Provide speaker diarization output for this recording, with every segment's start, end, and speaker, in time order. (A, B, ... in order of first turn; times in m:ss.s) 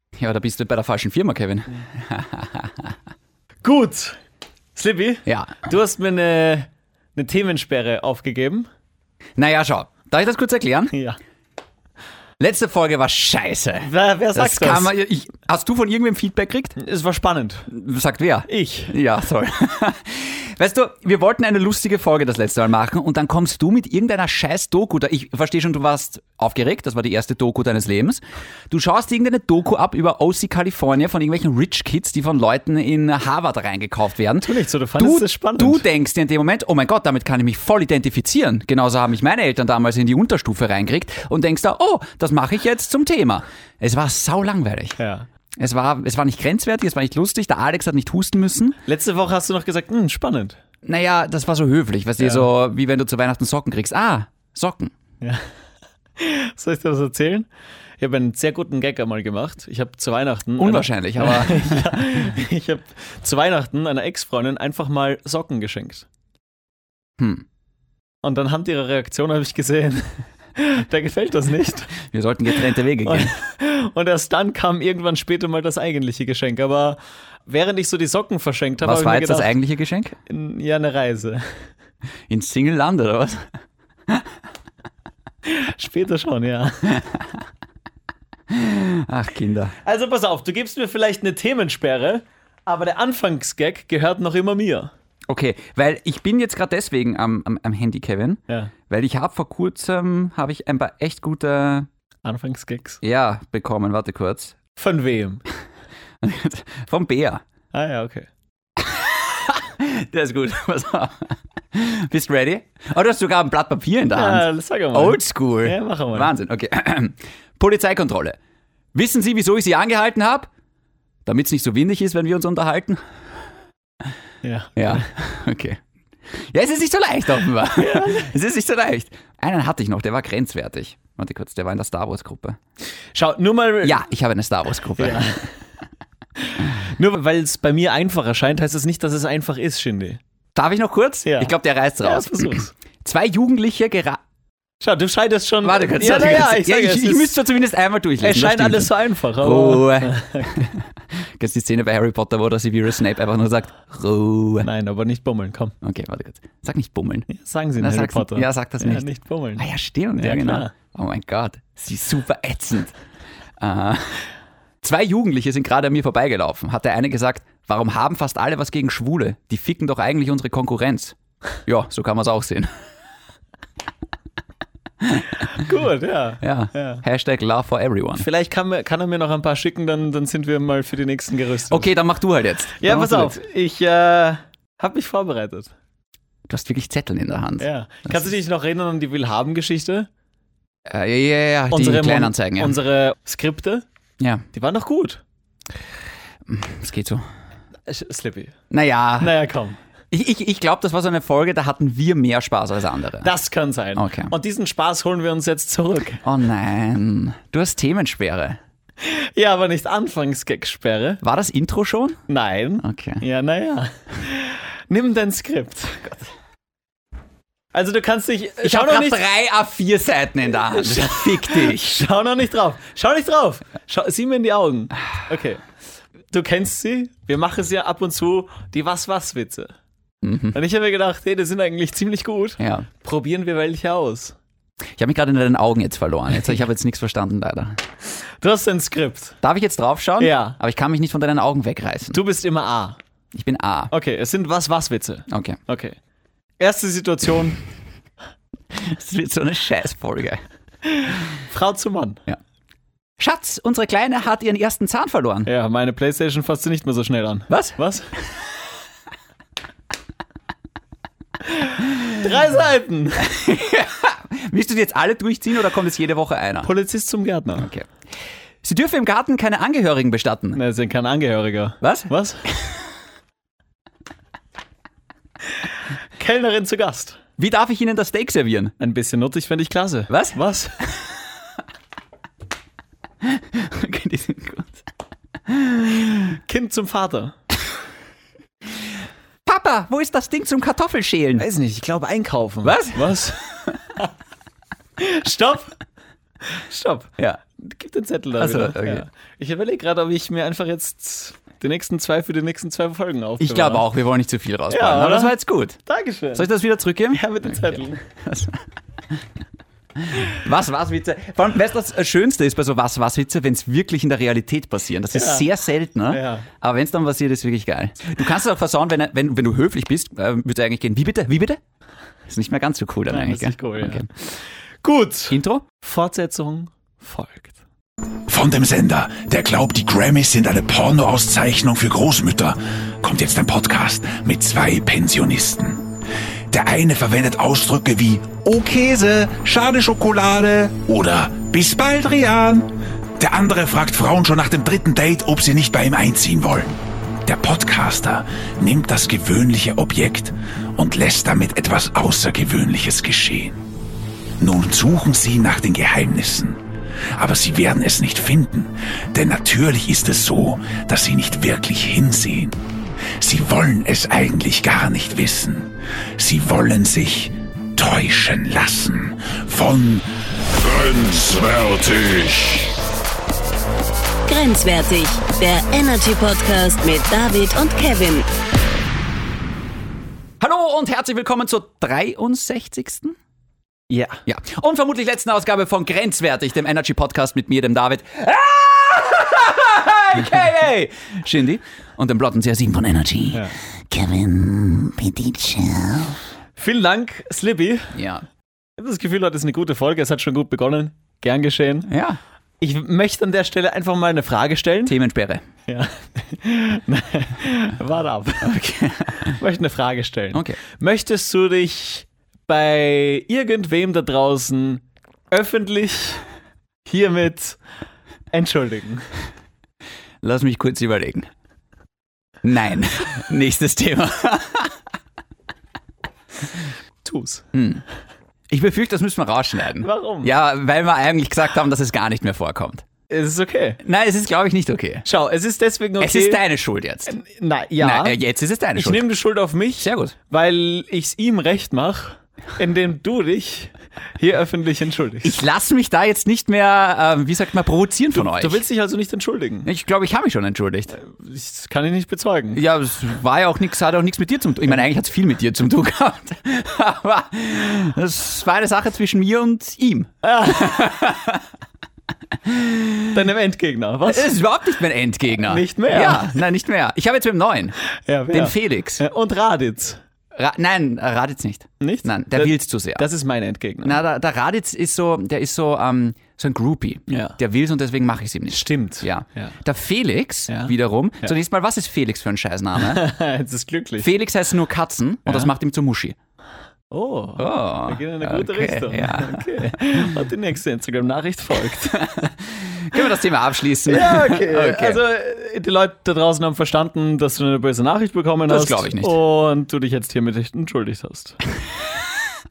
0:00.2-0:02.9 A
0:03.6-0:04.2 B
0:04.8-0:08.7 B
0:05.3-0:05.6 A
0:09.4-0:10.9 A
0:10.9-0:11.2 B
0:12.4-0:16.8 A
0:13.8-0:14.9 B
0:16.8-0:17.7 B
0:17.7-0:45.0 A
0:18.5-0:19.0 B
0:34.4-0:35.8 B
0:45.0-0:45.3 B
0:45.6-0:48.8 A
0:48.9-0:50.6 B
0:50.8-0:54.9 A
0:52.2-0:52.5 B
0:55.2-0:55.5 B
0:56.2-0:57.5 B
0:58.0-1:06.1 B
1:00.6-1:02.2 A
1:07.2-1:07.4 A
1:08.2-1:11.9 B
1:12.0-1:13.3 A
1:13.0-1:19.5 B
1:18.8-1:20.2 A
1:20.2-1:21.4 B
1:22.3-1:23.5 A
1:25.5-1:27.0 B
1:28.5-1:29.8 A
1:29.8-1:34.9 B
1:35.3-1:41.9 A
1:42.2-1:43.0 B
1:43.0-1:44.6 A
1:44.8-1:45.4 B
1:46.2-1:47.4 A
1:47.7-1:48.3 B
1:48.8-1:58.4 A
1:54.1-1:56.3 B
1:58.9-2:00.5 A
2:01.3-2:03.0 A
2:04.4-2:05.1 B
2:04.8-2:12.6 A
2:07.8-2:08.3 B
2:13.1-2:14.0 B
2:13.8-2:15.4 A
2:15.0-2:15.5 B
2:16.4-2:20.2 B
2:20.6-2:24.2 A
2:21.2-2:22.7 B
2:24.8-2:27.4 B
2:25.6-2:34.7 A
2:28.2-2:30.6 B
2:34.6-2:35.8 B
2:35.8-2:42.9 A
2:37.3-2:39.6 B
2:40.2-2:40.7 B
2:43.6-2:44.3 A
2:44.8-2:52.7 A
2:55.0-2:55.3 A
2:55.5-2:57.0 B
2:56.4-2:58.3 A
2:58.2-3:01.9 B
3:01.7-3:03.4 A
3:02.8-3:05.7 B
3:06.5-3:08.3 A
3:07.6-3:10.1 B
3:10.9-3:12.8 A
3:11.7-3:13.8 B
3:14.2-3:14.4 A
3:14.5-3:15.2 B
3:16.5-3:17.2 A
3:17.9-3:18.6 B
3:18.7-3:19.3 A
3:19.2-3:19.8 B
3:20.1-3:23.3 A
3:23.2-3:26.2 B
3:24.0-3:24.3 A
3:26.2-3:28.6 A
3:29.0-3:31.2 B
3:31.2-3:32.2 A
3:32.3-3:36.2 B
3:32.8-3:33.2 A
3:37.7-3:39.2 B
3:38.6-3:42.0 A
3:40.8-3:45.6 B
3:46.3-3:49.7 B
3:50.2-3:50.6 A
3:50.5-3:54.4 B
3:52.6-3:52.9 A
3:55.0-3:57.8 A
3:58.4-3:59.4 B
3:59.4-4:02.2 A
4:00.2-4:00.6 B
4:02.1-4:03.0 B
4:03.3-4:03.9 A
4:03.9-4:06.0 B
4:05.3-4:05.6 A
4:06.6-4:07.6 B
4:08.7-4:10.4 A
4:10.9-4:12.2 B
4:13.2-4:15.5 A
4:15.4-4:18.1 B
4:17.5-4:17.8 A
4:21.5-4:23.3 B
4:23.2-4:26.7 A
4:26.6-4:27.7 B
4:27.6-4:27.9 A
4:28.6-4:30.6 A
4:30.6-4:32.4 B
4:31.8-4:32.1 A
4:36.2-4:37.2 B
4:37.4-4:38.8 A
4:38.8-4:40.8 B
4:40.1-4:40.4 A
4:43.2-4:44.8 A
4:45.5-4:46.3 A
4:46.4-4:47.4 B
4:49.5-4:51.5 A
4:51.4-4:53.4 B
4:52.6-4:53.8 A
4:55.0-4:55.8 B
4:56.5-5:03.8 B
4:58.4-4:59.0 A
5:03.4-5:05.8 A
5:04.7-5:05.3 B
5:05.8-5:06.5 B
5:06.4-5:08.6 A
5:07.1-5:08.0 B
5:10.0-5:21.6 A
5:15.1-5:15.5 B
5:16.1-5:16.5 B
5:22.3-5:24.1 A
5:23.1-5:27.6 B
5:25.3-5:25.6 A
5:28.3-5:36.0 C
5:36.5-5:53.6 C
5:54.4-5:56.6 C
5:57.1-6:02.6 C
6:03.2-6:12.8 C
6:14.3-6:18.3 D
6:20.4-6:23.2 A
6:23.9-6:24.2 B
6:24.3-6:36.2 A
6:33.3-6:33.6 B
6:36.6-6:38.0 B
6:37.9-6:38.3 A
6:38.8-6:41.9 B
6:41.9-6:42.2 A
6:42.6-6:45.0 B
6:44.9-6:45.4 A
6:45.7-6:48.6 B
6:48.4-6:49.4 A
6:49.4-6:56.2 B
6:50.3-6:50.6 A
6:56.9-6:57.6 B
6:58.3-6:59.1 B
7:00.2-7:01.3 A
7:02.4-7:04.8 A
7:07.0-7:07.5 B
7:07.5-7:07.8 A
7:08.5-7:12.8 A
7:09.8-7:10.3 B
7:13.1-7:13.8 B
7:13.8-7:15.1 A
7:15.0-7:16.4 B
7:16.0-7:17.2 A
7:17.1-7:18.2 B
7:17.8-7:19.1 A
7:18.8-7:25.4 B
7:19.8-7:20.1 A
7:25.2-7:28.6 A
7:28.1-7:29.7 B
7:29.6-7:31.0 A
7:31.0-7:32.6 B
7:32.6-7:41.4 A
7:40.2-7:40.9 B
7:42.4-7:43.1 A
7:43.1-7:44.3 B
7:44.1-7:47.8 A
7:45.4-7:46.4 B
7:48.1-7:50.0 B
7:48.3-7:49.0 A
7:50.4-7:53.1 A
7:51.8-7:54.0 B
7:53.8-8:03.0 A
7:57.1-7:57.4 B
7:58.5-7:59.6 B
8:00.5-8:01.3 B
8:02.8-8:04.1 B
8:04.0-8:06.2 A
8:05.3-8:05.5 B
8:06.9-8:12.3 B
8:07.4-8:10.1 A
8:11.9-8:15.0 A
8:13.9-8:21.4 B
8:18.5-8:19.2 A